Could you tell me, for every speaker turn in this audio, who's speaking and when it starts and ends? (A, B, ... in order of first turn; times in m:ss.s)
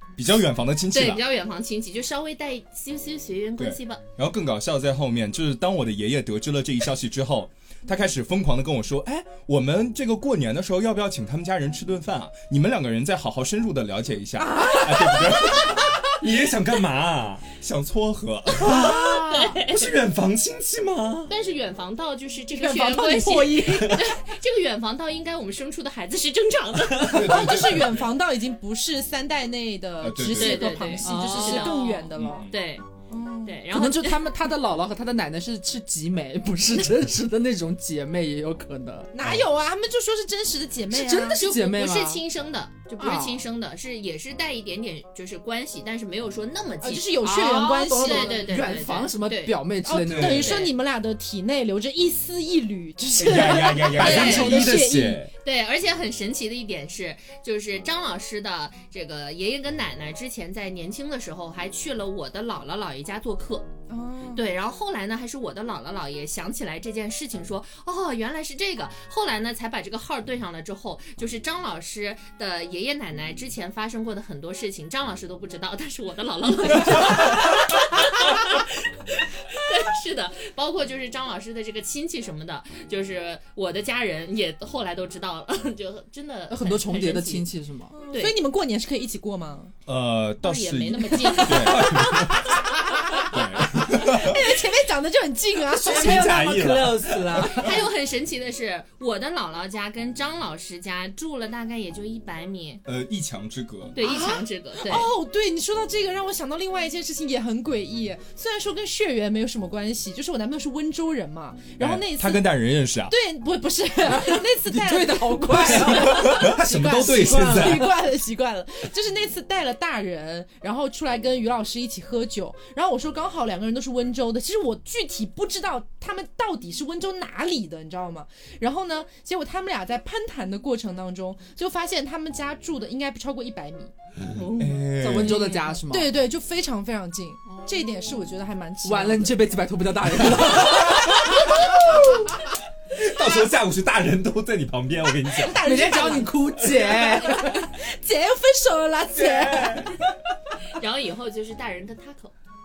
0:00.2-0:01.2 A
0:00.9-0:04.0 B
0:03.6-0:15.9 A
0:14.6-0:15.4 C
0:16.2-0:17.4 D
0:17.6-0:18.7 A
0:18.6-0:19.6 E
0:18.6-0:21.3 D
0:18.7-0:19.9 B
0:21.3-0:27.6 B
0:22.5-0:24.0 C
0:27.0-0:27.4 D
0:27.0-0:28.1 A
0:27.0-0:32.5 C
0:30.0-0:30.8 A
0:30.2-0:32.8 B
0:31.0-0:31.8 E
0:32.2-0:32.6 A
0:33.1-0:33.6 C
0:33.4-0:34.2 B
0:33.7-0:39.1 E
0:39.1-0:41.4 C
0:40.9-0:42.2 E
0:41.4-0:47.3 B
0:43.0-0:43.4 E
0:46.8-0:48.6 C
0:47.2-0:50.6 E
0:47.9-0:49.6 B
0:49.8-0:55.2 C
0:50.2-0:50.7 B
0:53.2-0:55.0 A
0:53.9-0:55.3 D
0:54.0-0:54.6 B
0:55.4-1:03.7 B
1:03.9-1:04.4 C
1:04.3-1:27.5 B
1:26.5-1:28.0 E
1:28.0-1:29.7 C
1:28.1-1:28.4 B
1:29.9-1:32.3 A
1:30.4-1:32.1 B
1:31.6-1:32.4 D
1:33.2-1:34.4 A
1:33.8-1:36.5 C
1:35.8-1:37.4 D
1:35.8-1:37.7 E
1:37.4-1:42.8 B
1:42.9-1:44.0 A
1:43.9-1:45.1 B
1:44.0-1:52.4 C
1:51.8-1:53.1 A
1:53.1-2:13.9 C
1:54.1-1:56.5 E
1:55.6-1:57.9 D
1:57.0-1:57.8 E
2:14.3-2:15.4 B
2:14.5-2:15.6 A
2:15.0-2:16.1 E
2:15.3-2:19.4 C
2:18.8-2:21.5 E
2:22.9-2:25.6 D
2:25.4-2:30.0 C
2:25.6-2:27.7 E
2:29.3-2:29.6 D
2:30.7-2:32.3 B